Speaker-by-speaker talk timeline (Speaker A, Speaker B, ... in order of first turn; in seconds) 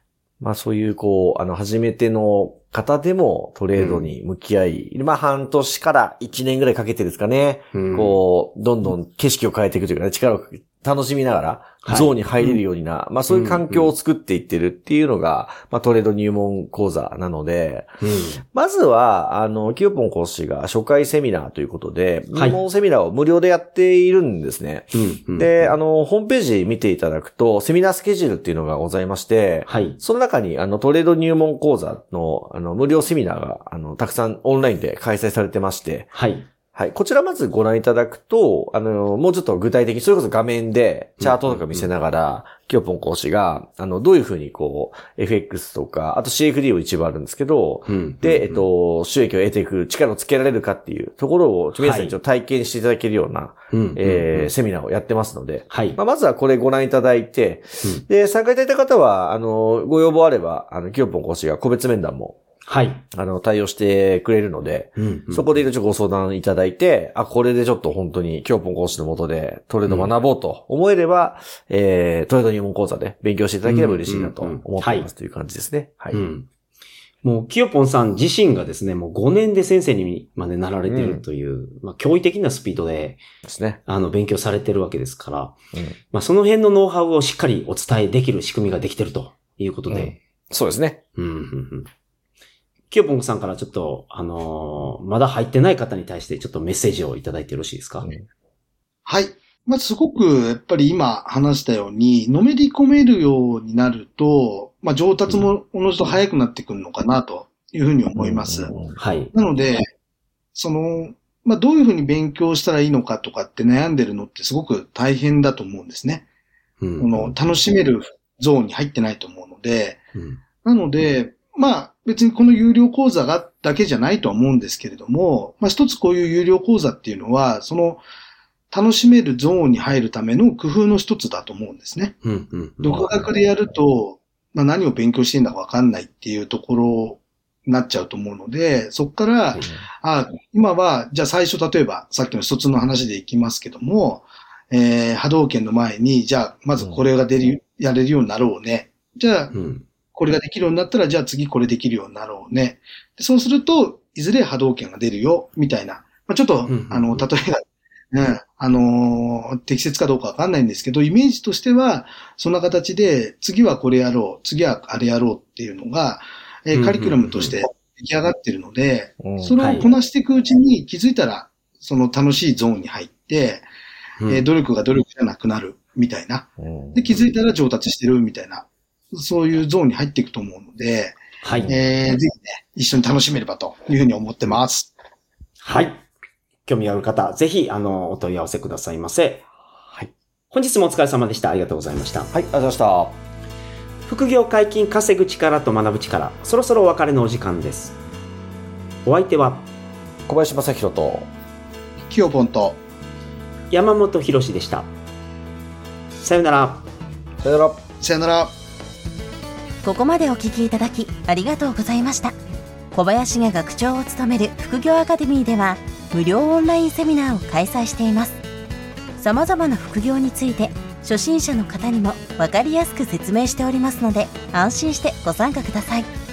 Speaker A: 0.4-17.9, 18.4-36.1, 36.7-62.4, 63.1-76.2, 80.9-81.2, 83.4-83.8, 89.9-91.0, 108.2-109.0, 132.9-133.2, 169.2-169.5, 176.6-177.2, 189.8-190.1, 192.3-193.2, 200.3-201.3, 207.4-207.8
Speaker B: 3.7-4.1, 7.7-8.2, 11.8-12.6, 13.3-13.9, 18.0-18.4, 22.3-22.6, 24.9-25.7, 29.7-30.0, 36.1-36.5, 41.2-41.9, 47.9-48.7, 51.8-52.1, 53.7-54.5, 55.7-56.0, 62.6-63.0, 65.0-65.6, 69.8-70.1, 73.6-75.1, 76.1-76.5, 77.2-83.2, 83.8-85.5, 86.1-90.2, 91.2-91.9, 92.9-98.1, 109.0-109.3, 116.8-117.3, 120.1-120.4, 132.2-133.0, 149.5-149.8, 156.7-157.2, 166.7-167.6, 169.6-169.9, 174.2-174.4, 181.4-181.7, 185.6-186.1, 186.7-189.5, 190.5-192.3, 194.1-198.0, 199.0-199.7, 203.7-204.9, 206.2-206.8
Speaker C: 99.0-108.8, 109.3-109.8, 110.5-116.2, 117.0-120.0, 120.6-128.0, 128.7-132.1, 132.8-149.5, 150.1-173.7, 174.3-184.9, 202.0-202.8, 208.0-208.5
Speaker D: 209.8-212.3, 212.9-218.4, 219.2-226.1